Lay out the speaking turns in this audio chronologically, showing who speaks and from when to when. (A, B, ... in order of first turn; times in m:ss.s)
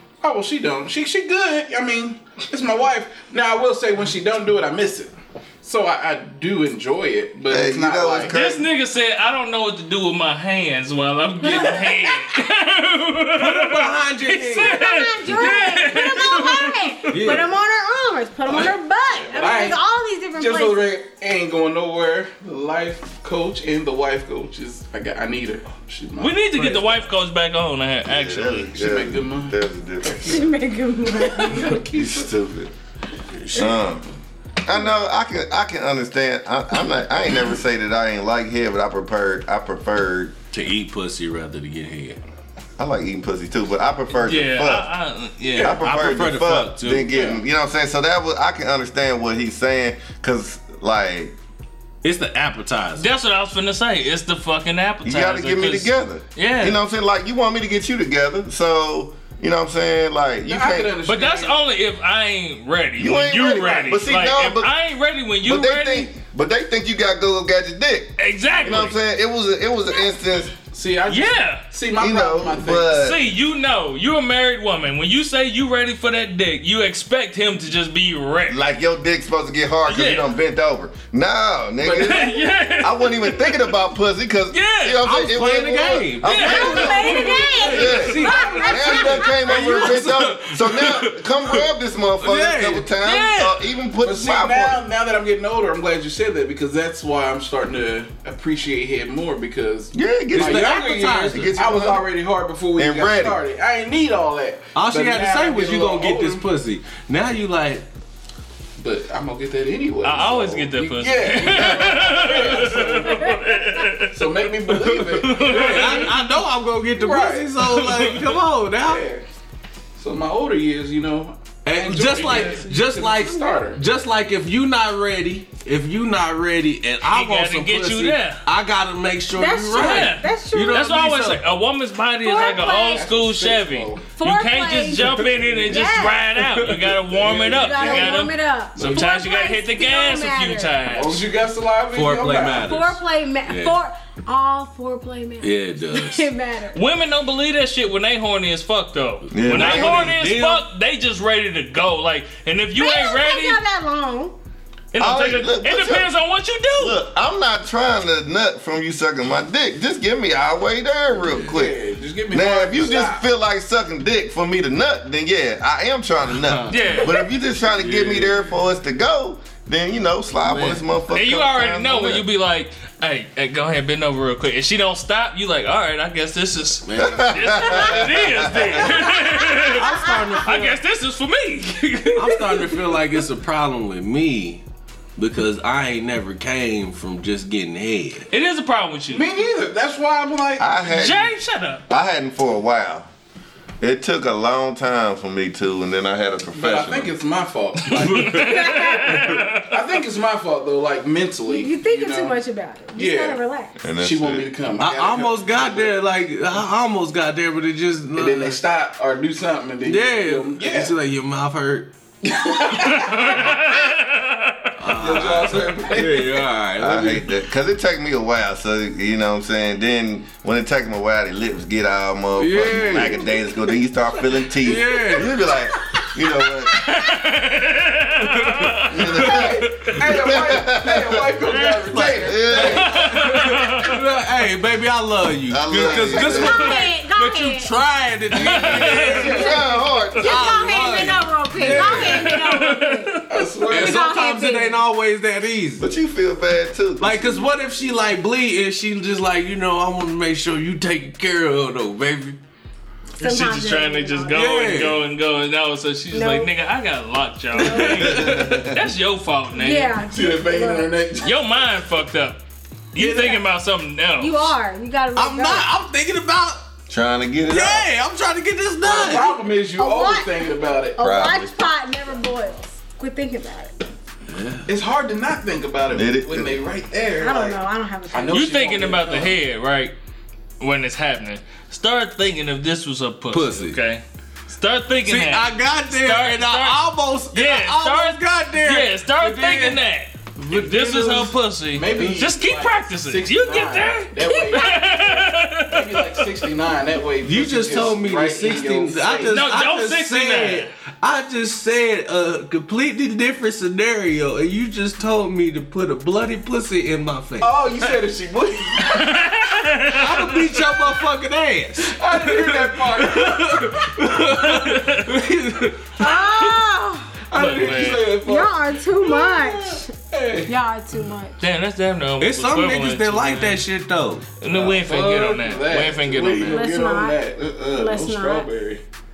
0:00.2-0:08.3 A
0:07.5-0:08.7 B
0:08.3-0:17.1 C
0:11.4-0:12.3 D
0:13.3-0:14.8 E
0:14.4-0:20.9 D
0:17.1-0:17.5 E
0:19.2-0:19.8 A
0:20.4-0:27.0 A
0:26.2-0:28.7 C
0:28.0-0:30.5 B
0:28.7-0:30.4 A
0:30.2-0:31.8 D
0:31.2-0:32.3 A
0:31.6-0:32.7 B
0:33.3-0:33.8 E
0:33.5-0:34.1 B
0:34.6-0:40.3 B
0:40.5-0:42.2 E
0:42.8-0:44.9 B
0:44.2-0:45.8 C
0:45.4-0:47.1 E
0:45.6-0:51.3 B
0:47.1-0:47.4 A
0:52.0-0:53.1 E
0:53.0-0:56.8 C
0:55.0-1:01.0 B
1:00.5-1:01.6 A
1:01.0-1:06.1 C
1:03.0-1:04.7 B
1:05.4-1:10.5 B
1:08.2-1:09.0 C
1:10.7-1:13.0 A
1:11.1-1:11.7 C
1:12.0-1:13.2 B
1:12.9-1:18.6 C
1:18.5-1:34.8 B
1:19.9-1:20.3 C
1:21.8-1:22.3 A
1:22.0-1:23.7 C
1:24.5-1:25.1 C
1:25.0-1:28.6 E
1:26.2-1:28.5 C
1:26.4-1:29.6 D
1:27.2-1:29.7 A
1:29.2-1:31.6 E
1:32.2-1:32.9 E
1:33.0-1:33.6 C
1:34.0-1:46.4 A
1:39.9-1:42.0 B
1:40.3-1:41.8 E
1:42.8-1:43.4 B
1:44.7-1:47.9 E
1:48.8-1:53.4 A
1:50.0-1:54.4 C
1:53.2-1:53.8 D
1:54.0-1:56.3 A
1:54.7-1:59.0 E
1:55.2-1:56.1 C
1:56.9-1:57.5 A
1:57.6-1:58.3 C
1:58.8-1:59.2 A
2:00.0-2:03.8 A
2:01.6-2:11.4 E
2:07.0-2:08.4 C
2:09.3-2:11.0 D
2:09.7-2:21.2 C
2:12.2-2:13.0 D
2:12.3-2:14.0 A
2:14.2-2:16.3 D
2:16.4-2:17.4 E
2:17.2-2:18.2 A
2:17.4-2:20.8 D
2:18.8-2:19.0 E
2:20.9-2:22.7 A
2:21.9-2:23.8 E
2:22.5-2:26.8 D
2:25.4-2:26.3 E
2:26.7-2:33.6 C
2:29.3-2:30.2 B
2:29.3-2:30.6 E
2:32.8-2:34.3 D
2:34.9-2:37.0 C
2:35.0-2:36.1 B
2:36.8-2:41.8 B
2:41.1-2:41.6 E
2:41.5-2:43.2 A
2:42.3-2:52.2 B
2:46.3-2:47.1 E
2:46.7-2:47.2 C
2:47.7-2:48.5 E
2:50.4-2:50.8 E
2:51.1-3:03.0 C
2:56.8-2:58.0 E
2:57.0-2:58.9 B
2:58.9-3:00.8 E
2:59.0-3:00.4 D
3:02.1-3:04.6 E
3:05.2-3:08.3 E
3:08.3-3:09.2 C
3:09.1-3:10.7 A
3:10.6-3:11.3 B
3:10.8-3:11.8 C
3:11.9-3:13.1 B
3:13.8-3:17.1 B
3:16.5-3:18.8 A
3:17.9-3:18.5 E
3:17.9-3:19.8 C
3:18.4-3:19.2 D
3:19.0-3:19.5 E
3:19.6-3:22.4 A
3:21.5-3:23.8 D
3:23.0-3:23.4 A
3:23.8-3:24.5 B
3:24.0-3:25.9 A
3:24.8-3:28.6 E
3:28.1-3:30.9 A
3:29.8-3:31.9 E
3:32.2-3:33.7 A
3:32.8-3:34.7 C
3:34.8-3:37.3 E
3:34.9-3:36.5 A
3:36.8-3:46.9 B
3:42.4-3:43.4 E
3:44.5-3:45.3 E
3:46.7-3:49.2 C
3:48.3-3:48.9 E
3:48.8-3:51.3 B
3:49.2-3:53.7 A
3:49.6-3:50.0 E
3:51.5-3:51.8 C
3:51.8-3:59.6 E
3:52.2-3:53.2 B
3:52.6-3:54.0 C
3:55.5-3:56.8 B
3:55.9-3:57.7 D
3:58.3-3:59.5 C
3:58.6-3:59.6 A
3:59.2-4:04.8 D
3:59.2-4:01.1 B
4:00.2-4:02.3 E
4:01.6-4:02.0 A
4:01.7-4:03.4 C
4:03.3-4:04.2 A
4:03.6-4:05.9 E
4:05.8-4:07.4 B
4:07.0-4:12.4 E
4:13.2-4:14.4 D
4:13.2-4:20.0 C
4:14.3-4:15.0 E
4:16.1-4:16.5 D
4:17.6-4:18.3 D
4:17.6-4:18.6 E
4:18.0-4:18.8 B
4:19.5-4:21.0 D
4:20.0-4:21.4 A
4:21.2-4:22.4 C
4:22.9-4:24.5 C
4:24.2-4:25.7 D
4:25.2-4:26.7 E
4:26.9-4:27.9 B
4:27.5-4:29.4 E
4:28.8-4:31.1 A
4:29.8-4:33.7 D
4:31.0-4:31.5 B
4:34.3-4:34.7 E
4:34.7-4:39.4 A
4:35.9-4:36.6 B
4:37.2-4:38.4 D
4:38.3-4:39.9 C
4:40.6-4:56.5 C
4:43.3-4:43.8 E
4:45.0-4:49.8 E
4:50.4-4:51.3 E
4:51.7-4:59.4 A
4:54.2-4:55.3 D
4:57.2-5:07.8 E
4:59.3-5:00.7 C
5:07.4-5:09.4 A
5:08.8-5:10.5 C
5:09.8-5:16.0 E
5:11.8-5:13.8 A
5:14.2-5:15.2 C
5:16.0-5:17.1 D
5:17.3-5:20.5 A
5:17.3-5:18.2 C
5:18.0-5:19.9 D
5:20.5-5:21.4 D
5:21.4-5:23.6 C
5:22.2-5:24.3 E
5:24.4-5:26.6 C
5:24.5-5:28.8 A
5:26.4-5:27.2 D
5:27.7-5:28.5 D